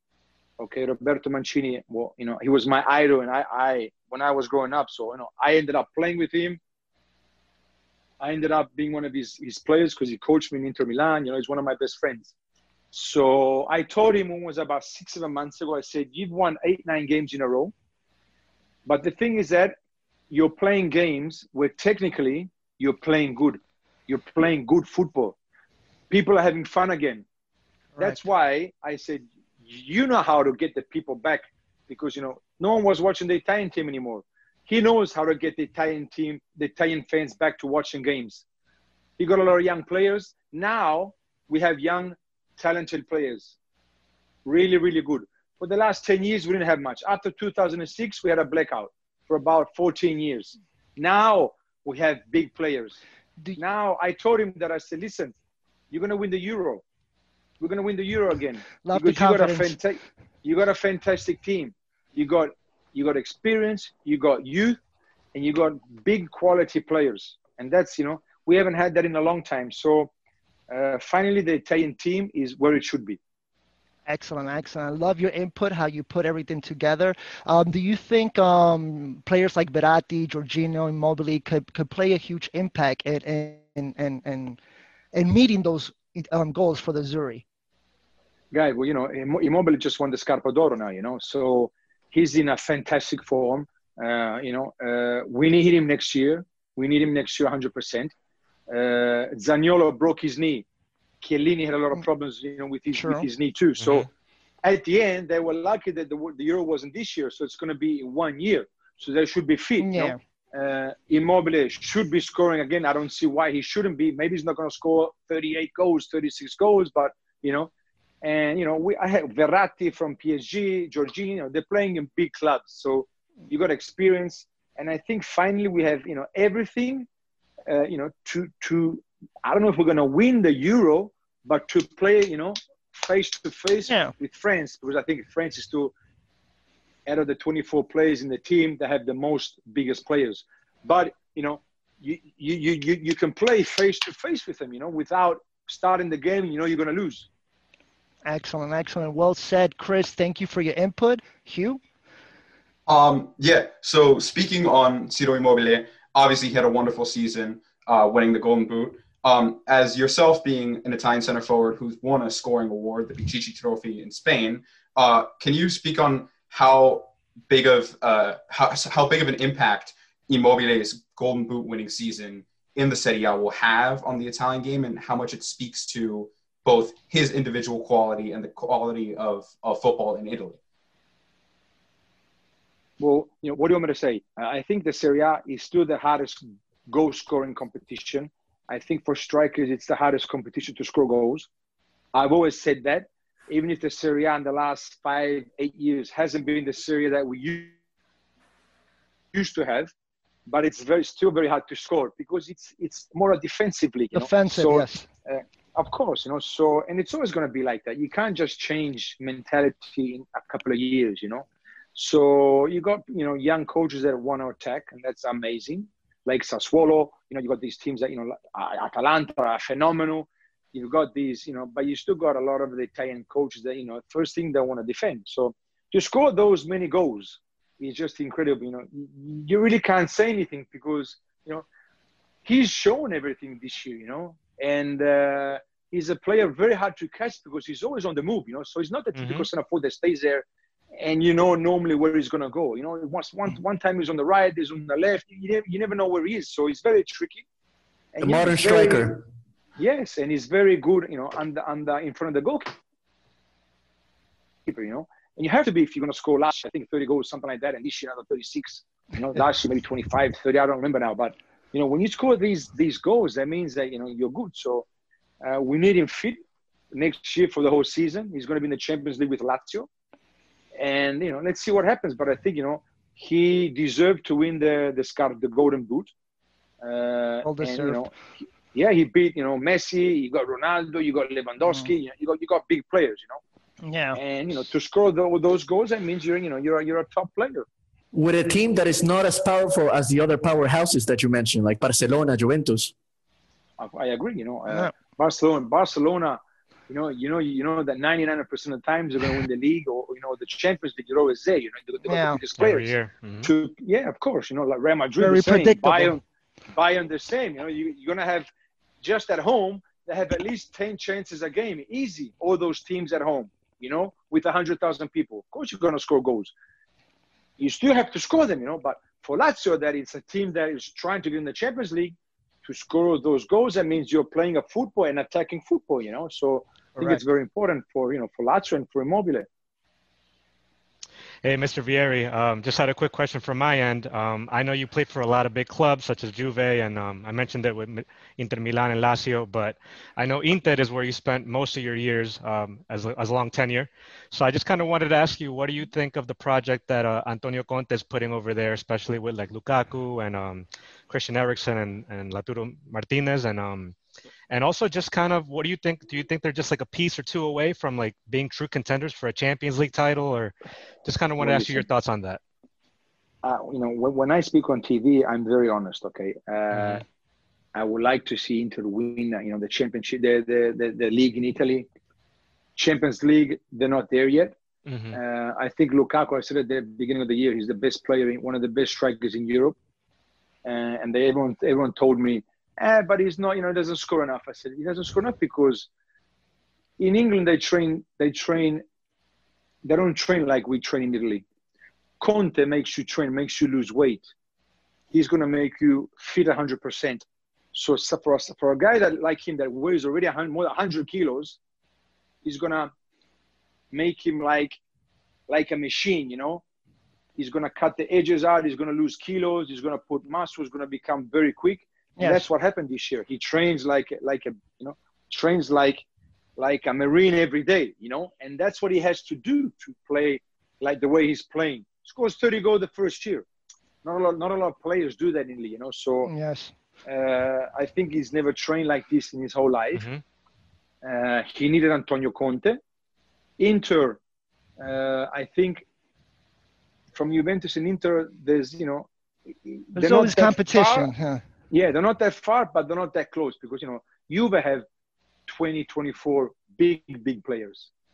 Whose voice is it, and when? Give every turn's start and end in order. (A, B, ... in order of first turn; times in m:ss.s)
0:00.6-0:06.6 A
0:08.2-0:12.3 A
0:12.9-0:17.7 A
0:18.9-0:19.8 A
0:20.3-0:25.4 A
0:26.1-0:27.2 A
0:28.0-0:28.2 B
0:28.0-0:38.4 A
0:39.2-0:43.6 A
0:44.4-0:53.0 A
0:53.6-0:55.3 A
0:55.9-0:56.8 A
0:57.6-1:04.8 A
0:58.7-0:59.8 B
1:05.3-1:10.1 A
1:10.7-1:13.2 A
1:14.0-1:24.6 B
1:25.1-1:27.4 B
1:28.5-1:38.1 A
1:38.7-1:40.7 A
1:41.2-1:44.1 A
1:42.9-1:43.3 B
1:43.8-1:44.1 C
1:44.6-1:57.7 A
1:49.8-1:50.2 B
1:58.2-2:07.1 A
2:07.7-2:15.9 A
2:13.9-2:14.1 B
2:17.0-2:27.3 A
2:28.3-2:31.8 B
2:32.9-3:00.6 D
3:03.0-3:11.5 A
3:12.1-3:17.7 A
3:19.3-3:19.9 A
3:20.5-3:51.6 A
3:24.1-3:25.1 B
3:52.4-4:00.4 A
3:59.1-3:59.5 C
4:01.0-4:07.4 A
4:08.1-4:09.1 A
4:08.2-4:09.2 E
4:09.8-4:12.8 A
4:14.7-4:24.9 A
4:25.4-4:26.4 A
4:26.9-4:29.9 A
4:30.8-4:36.1 A
4:36.8-4:38.2 A
4:37.4-4:38.0 B
4:38.7-4:43.4 A
4:41.6-4:41.9 B
4:43.8-4:44.2 B
4:44.1-4:47.7 A
4:48.1-4:52.9 E
4:53.8-5:06.2 A
4:54.7-4:54.9 B
5:02.0-5:02.4 B
5:02.6-5:03.5 C
5:05.2-5:06.1 B
5:06.7-5:08.5 A
5:09.0-5:16.5 A
5:17.6-5:29.5 A
5:27.0-5:27.2 B
5:31.4-5:54.0 C
5:54.5-6:02.4 C
6:01.4-6:01.8 A
6:03.4-6:07.0 A
6:06.7-6:07.0 C
6:07.7-6:11.9 A
6:12.8-6:14.6 A
6:14.9-6:15.2 C
6:15.1-6:19.8 A
6:20.6-6:25.9 A
6:27.0-6:28.8 A
6:29.8-6:31.4 A
6:32.2-6:34.2 A
6:35.1-6:41.6 A
6:42.4-6:42.9 A
6:43.9-6:44.8 A
6:45.5-6:46.6 A
6:47.4-6:56.0 A
6:52.2-6:52.4 B
6:56.6-7:03.4 A
7:04.0-7:06.3 A
7:06.2-7:06.7 B
7:07.0-7:10.0 A
7:09.9-7:10.2 C
7:11.0-7:12.8 A
7:13.6-7:14.2 A
7:14.8-7:15.8 A
7:17.1-7:21.1 A
7:20.0-7:21.4 B
7:21.7-7:24.8 A
7:25.5-7:27.9 A